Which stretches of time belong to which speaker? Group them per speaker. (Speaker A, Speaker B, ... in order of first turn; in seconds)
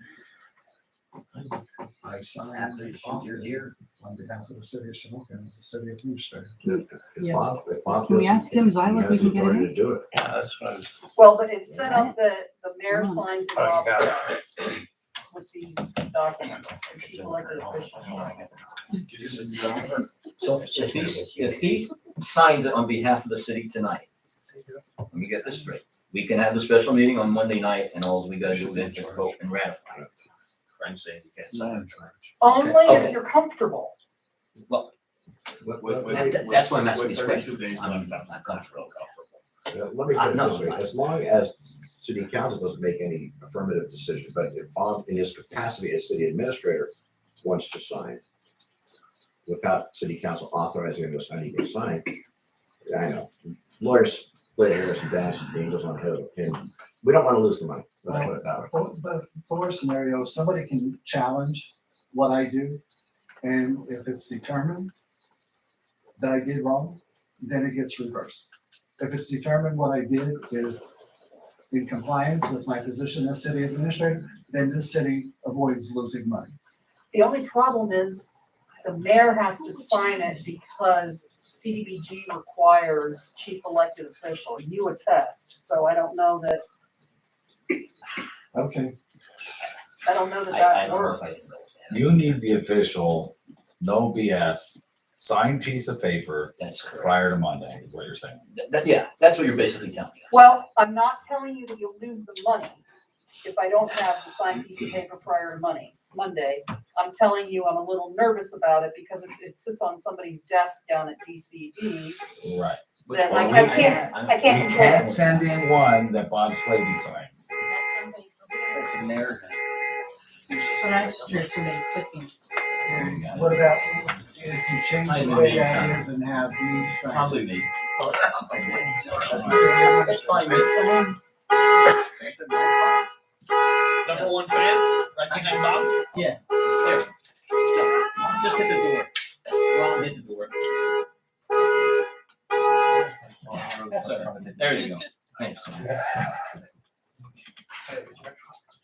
Speaker A: 2.0-6.6, 58.1-62.8, 63.4-64.9, 66.2-70.9, 71.7-76.5, 88.5-89.0, 122.9-127.4, 129.2-131.0, 132.2-132.9
Speaker B: 2.5-3.7, 19.1-24.1, 25.1-30.1, 32.5-33.2, 34.6-34.9, 36.0-39.4, 40.1-40.9, 90.5-92.3, 96.6-97.2, 98.5-100.4, 113.0-115.5, 118.7-119.6, 122.9-123.6, 125.0-126.1, 127.1-127.7, 128.4-131.1, 135.3-140.5, 143.8-146.0
Speaker C: 6.6-10.4, 35.6-36.5, 39.7-48.2, 49.5-52.1, 52.9-58.7
Speaker D: 6.7-9.7, 11.8-12.1, 12.9-13.2, 120.8-122.3
Speaker E: 11.2-14.8, 15.3-18.4, 32.4-33.9, 77.1-78.2, 78.8-86.6, 90.0-91.4, 100.3-102.8, 103.4-112.2, 113.1-115.0, 117.7-118.2
Speaker F: 19.1-19.8, 20.9-21.2, 28.4-29.4, 30.7-32.3, 35.8-39.0, 120.5-121.5, 134.0-136.0, 144.2-144.9, 147.9-148.6
Speaker G: 91.9-98.4, 112.4-117.5